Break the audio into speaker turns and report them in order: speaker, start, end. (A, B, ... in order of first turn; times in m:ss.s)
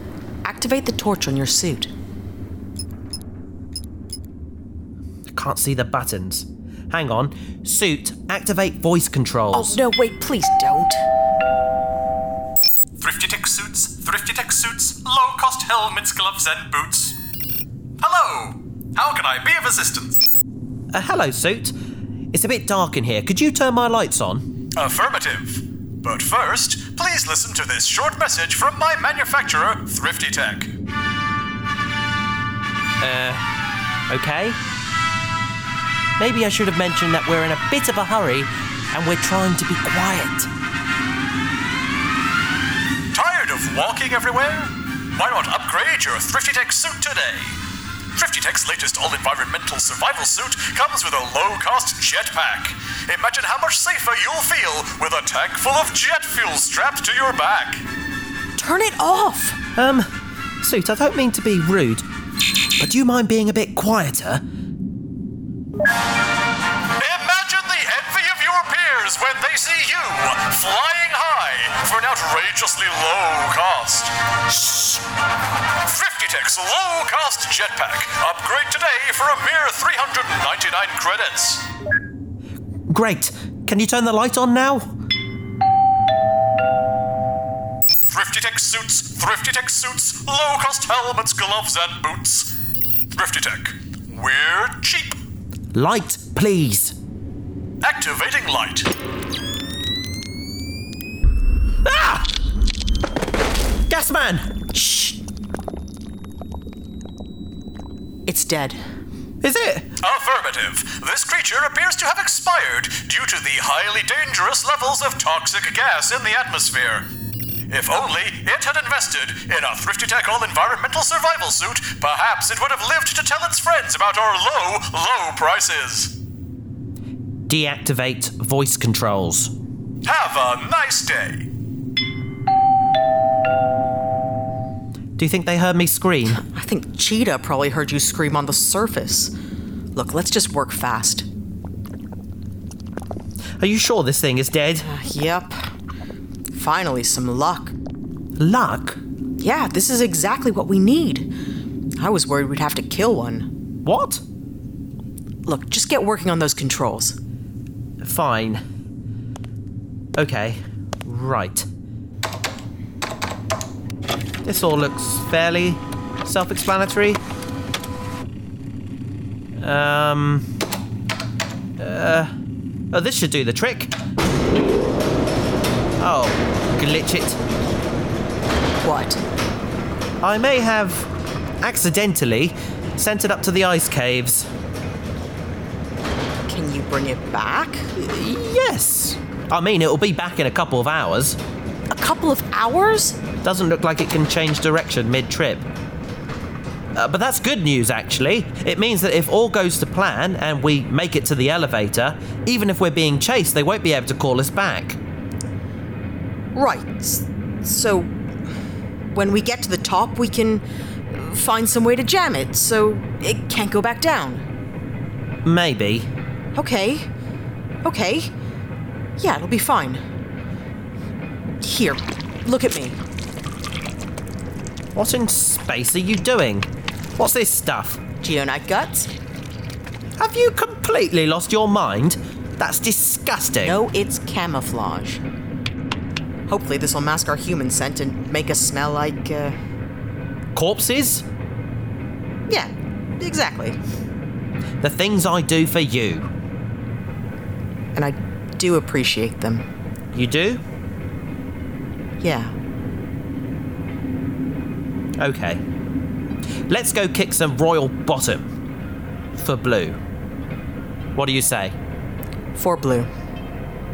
0:00.4-0:01.9 A
0:05.3-0:09.8 B
0:09.5-0:11.0 A
0:13.0-0:17.2 C
0:18.0-0:20.2 C
0:20.9-0:21.8 B
0:22.3-0:24.4 B
0:24.8-0:30.7 C
0:33.0-0:33.4 B
0:34.1-0:34.6 B
0:36.2-0:40.5 B
0:43.1-0:47.6 C
0:48.1-0:57.8 C
0:58.6-0:59.6 A
0:59.8-1:00.1 B
1:00.6-1:02.1 B
1:02.8-1:04.4 B
1:07.0-1:15.0 C
1:15.8-1:21.6 C
1:22.9-1:24.9 B
1:28.1-1:32.6 C
1:33.1-1:35.2 C
1:35.7-1:37.0 B
1:37.8-1:38.9 C
1:41.8-1:42.3 B
1:43.9-1:45.2 B
1:48.3-1:48.8 A
1:49.4-1:49.9 B
1:50.0-1:57.1 C
1:57.7-2:06.2 C
2:07.5-2:09.5 B
2:10.0-2:11.5 C
2:15.2-2:16.4 B
2:16.3-2:19.3 A
2:20.0-2:21.3 A
2:23.6-2:24.9 B
2:24.8-2:25.7 A
2:26.5-2:27.8 A
2:28.4-2:29.0 B
2:29.4-2:31.3 A
2:32.0-2:33.5 A
2:33.8-2:34.2 B
2:35.5-2:37.2 A
2:38.0-2:38.6 B
2:40.2-2:41.7 B
2:44.4-2:47.2 B
2:49.6-2:50.5 B
2:51.8-2:52.3 B
2:52.9-2:53.9 B
2:56.0-2:57.4 B
2:58.8-2:59.2 A
3:00.2-3:01.1 B
3:01.6-3:04.5 B
3:06.5-3:07.9 A
3:08.0-3:11.4 B
3:11.9-3:13.2 A
3:13.4-3:15.7 B
3:17.0-3:25.0 B
3:26.6-3:28.1 A
3:29.1-3:34.5 A
3:35.4-3:36.1 B
3:36.6-3:37.1 A
3:37.8-3:38.3 A
3:39.2-3:40.0 A
3:41.6-3:43.0 A
3:45.0-3:48.0 B
3:48.2-3:49.1 A
3:50.2-3:53.8 B
3:53.6-3:55.2 A
3:56.5-3:59.6 A
4:00.6-4:01.2 B
4:02.5-4:03.8 A
4:04.8-4:06.3 B
4:08.0-4:09.7 A
4:10.1-4:10.6 B
4:12.2-4:12.5 A
4:15.2-4:15.6 B
4:16.7-4:18.5 B
4:19.4-4:20.0 B
4:21.2-4:21.8 B
4:22.6-4:23.1 A